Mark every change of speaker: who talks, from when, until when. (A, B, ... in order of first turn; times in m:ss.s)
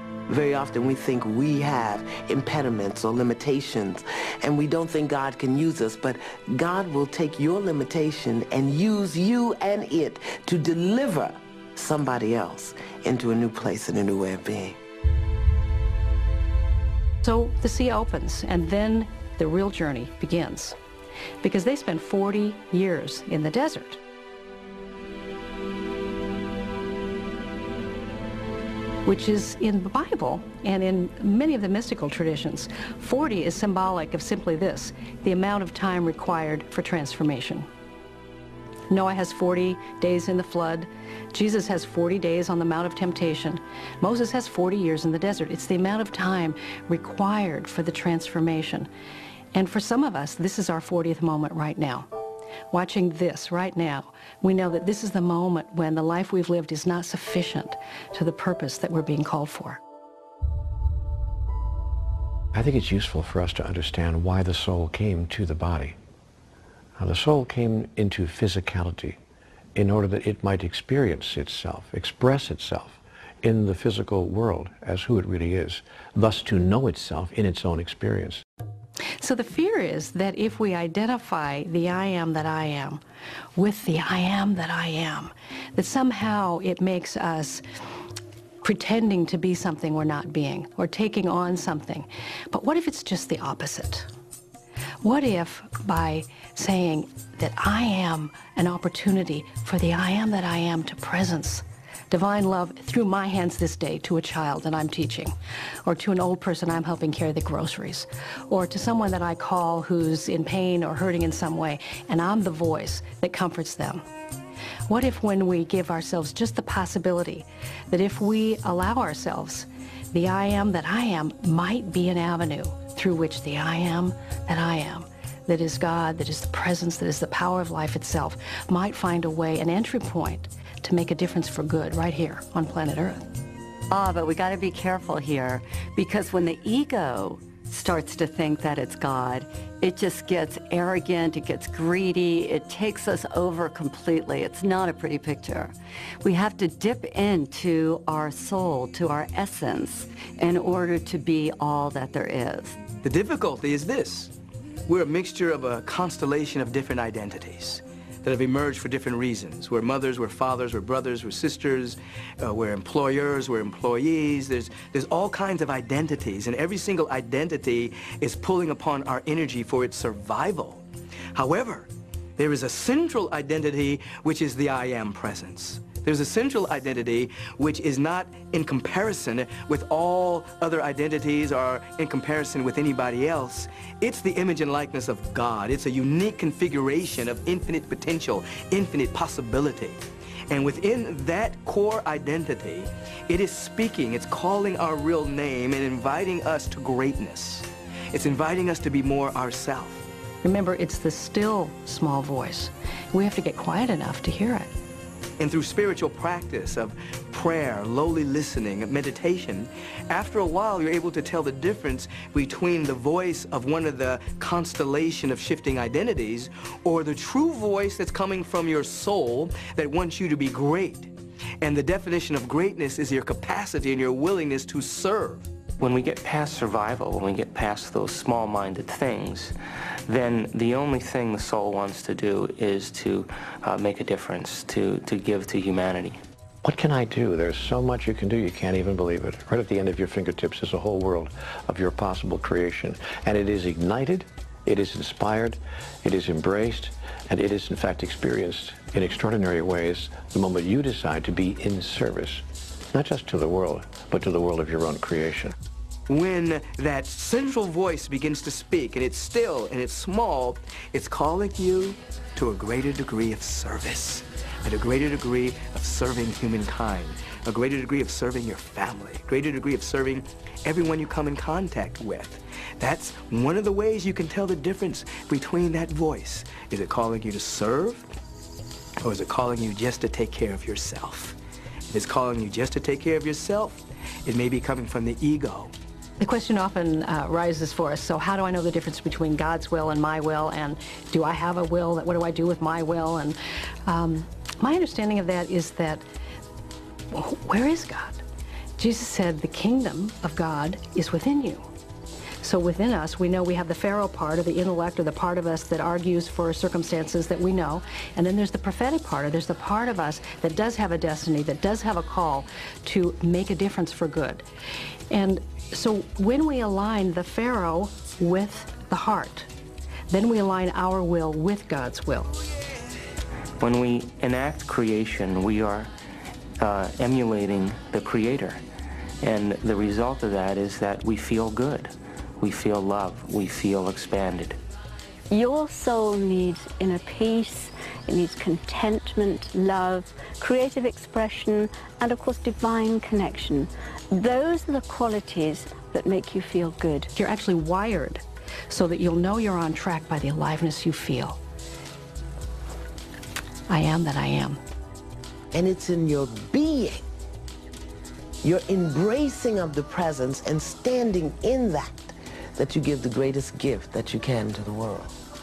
0:00.3-0:14.8 A
0:17.2-0:20.8 B
0:21.4-0:24.0 B
0:29.0-0:37.7 B
0:38.9-0:48.9 B
0:49.5-0:52.1 B
0:52.7-0:59.8 B
1:02.5-1:06.0 C
1:07.0-1:09.2 C
1:09.8-1:18.4 C
1:19.2-1:23.0 B
1:23.6-1:27.6 B
1:28.6-1:34.1 B
1:35.0-1:45.3 B
1:45.8-1:54.0 B
1:54.9-2:13.2 B
2:13.9-2:32.8 D
2:33.0-2:34.3 E
2:34.9-2:50.8 E
2:51.3-3:20.0 E
3:20.4-3:24.7 B
3:25.4-3:45.5 E
3:45.8-3:49.5 F
3:50.1-3:56.2 F
3:56.6-4:15.5 C
4:16.1-4:38.1 E
4:39.0-4:41.4 E
4:41.9-4:45.7 E
4:46.2-4:56.0 B
4:57.1-4:58.2 B
4:58.8-5:01.7 B
5:02.4-5:14.4 B
5:15.1-5:19.5 B
5:20.1-5:22.3 B
5:23.6-5:25.9 F
5:26.6-5:28.6 F
5:29.2-5:34.6 F
5:35.3-5:47.1 G
5:47.1-5:51.4 B
5:53.7-5:54.6 B
5:55.5-5:57.0 A
5:58.4-6:05.2 A